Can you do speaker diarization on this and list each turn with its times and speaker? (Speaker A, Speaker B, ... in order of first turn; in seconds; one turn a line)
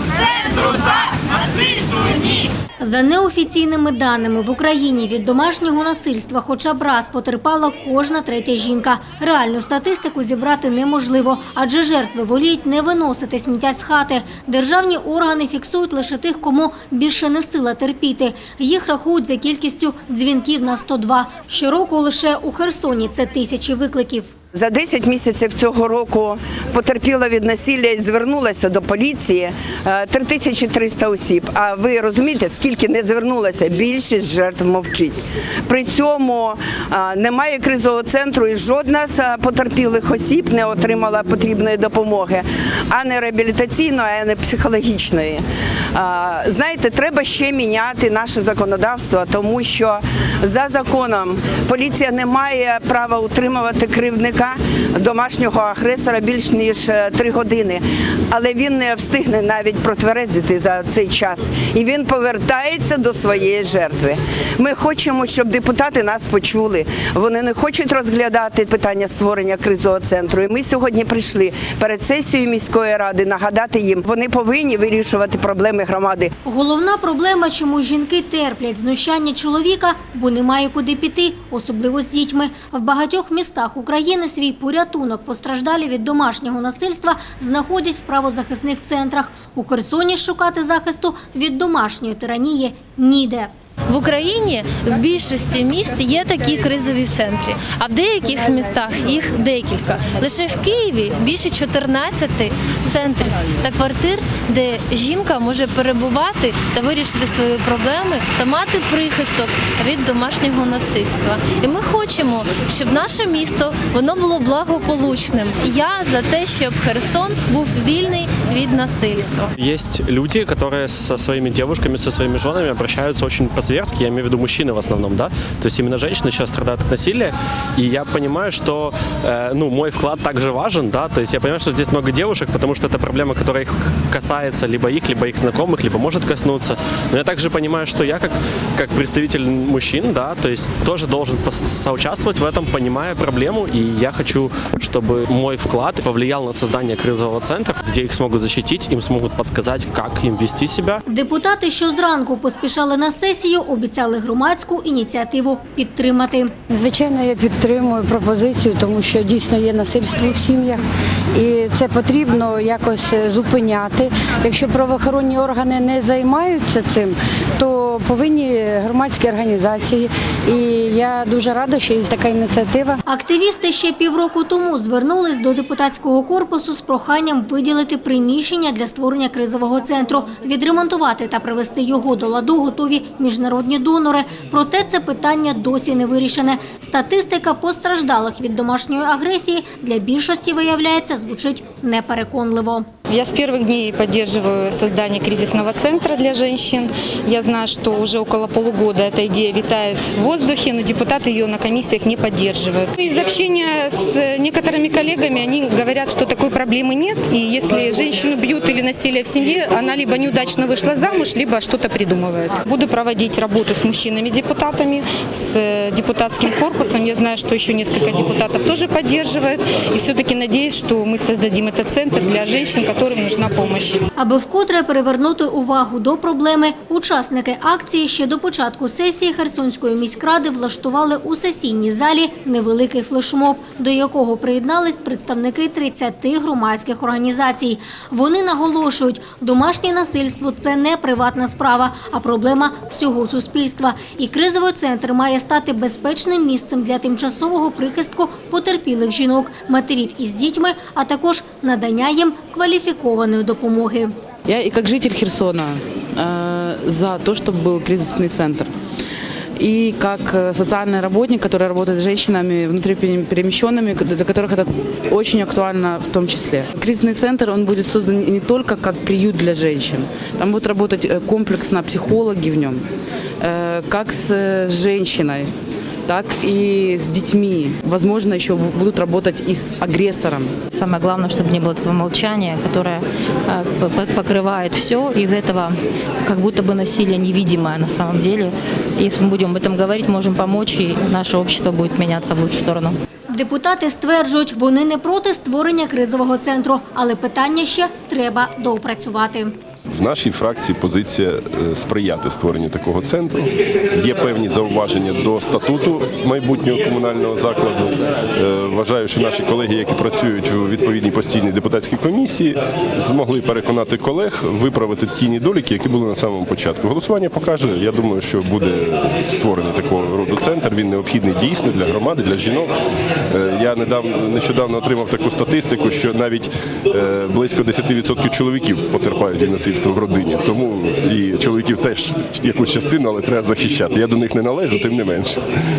Speaker A: 2.8-24.3
Speaker B: 24.5-45.4
Speaker B: 45.9-76.3
Speaker A: 76.5-93.5
Speaker C: 93.9-119.5
Speaker D: 119.6-151.0
Speaker A: 151.1-156.5
Speaker E: 156.7-160.8
Speaker E: 161.3-173.0
Speaker A: 173.1-192.9
Speaker F: 193.1-224.0
Speaker A: 224.2-254.1
Speaker G: 254.5-258.7
Speaker G: 259.6-272.8
Speaker G: 273.4-275.5
Speaker G: 276.1-280.6
Speaker H: 280.7-293.0
Speaker A: 293.3-299.5
Speaker I: 299.9-322.7
Speaker I: 323.3-335.4